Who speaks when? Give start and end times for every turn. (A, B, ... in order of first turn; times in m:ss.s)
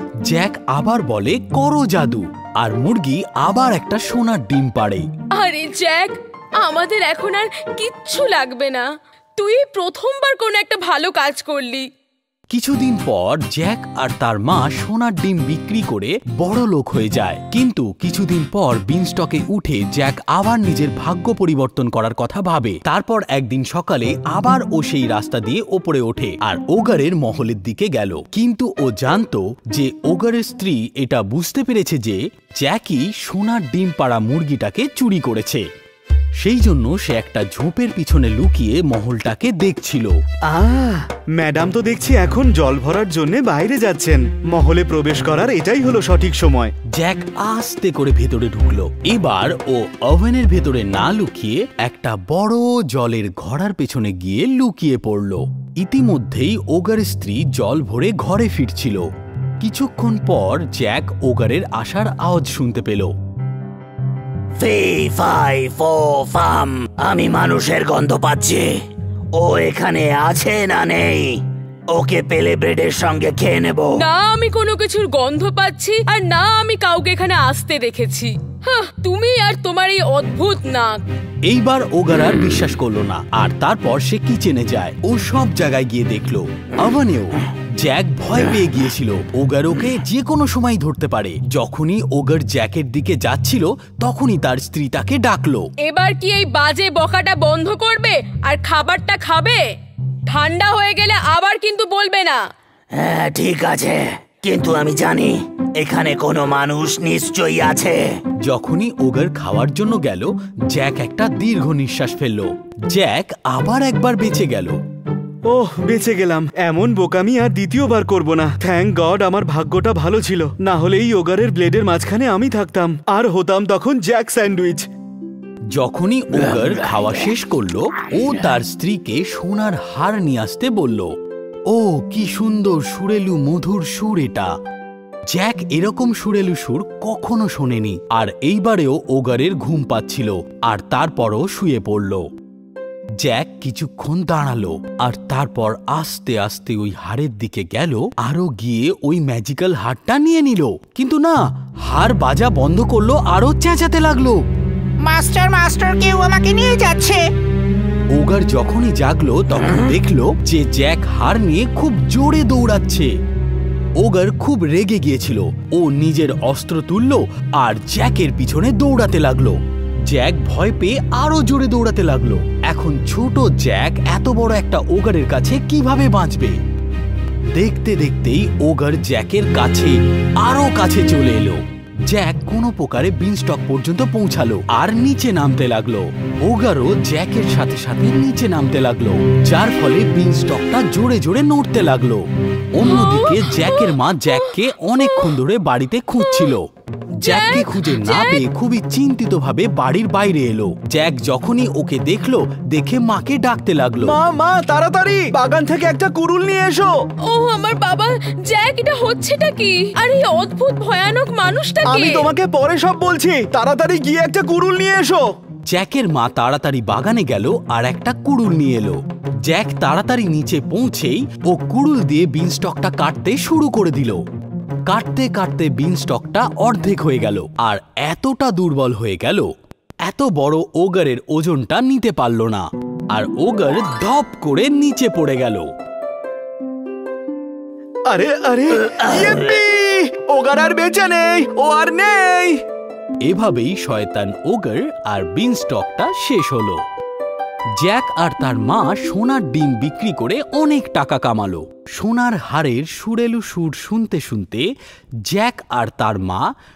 0:00.2-0:05.1 A
0:05.3-0:08.8 B
0:09.4-0:11.9 B
0:12.5-0:35.6 A
0:36.4-0:40.1 A
0:40.5-0:46.7 C
0:46.9-0:59.1 A
0:59.6-1:03.1 A
1:04.6-1:08.7 D
1:09.4-1:11.4 D
1:11.9-1:13.9 D
1:14.0-1:21.0 B
1:21.4-1:35.7 A
1:35.8-1:39.6 B
1:40.3-1:42.4 B
1:43.0-1:48.0 D
1:48.4-1:54.8 A
1:55.5-2:04.8 C
2:05.7-2:11.1 A
2:11.7-2:14.5 A
2:15.3-2:22.2 A
2:23.2-2:34.4 A
2:35.0-2:37.2 E
2:38.1-2:43.1 A
2:44.0-2:56.6 A
2:57.6-3:16.6 A
3:12.8-3:15.3 B
3:16.2-3:16.5 B
3:17.2-3:18.4 B
3:17.2-3:24.2 A
3:24.0-3:26.9 C
3:27.2-3:32.3 B
3:31.8-3:35.2 C
3:35.7-3:44.2 A
3:44.9-3:49.5 A
3:50.0-3:55.7 A
3:58.1-4:02.6 C
3:58.8-3:59.5 D
4:03.2-4:06.8 A
4:07.8-4:14.7 A
4:15.3-4:16.5 A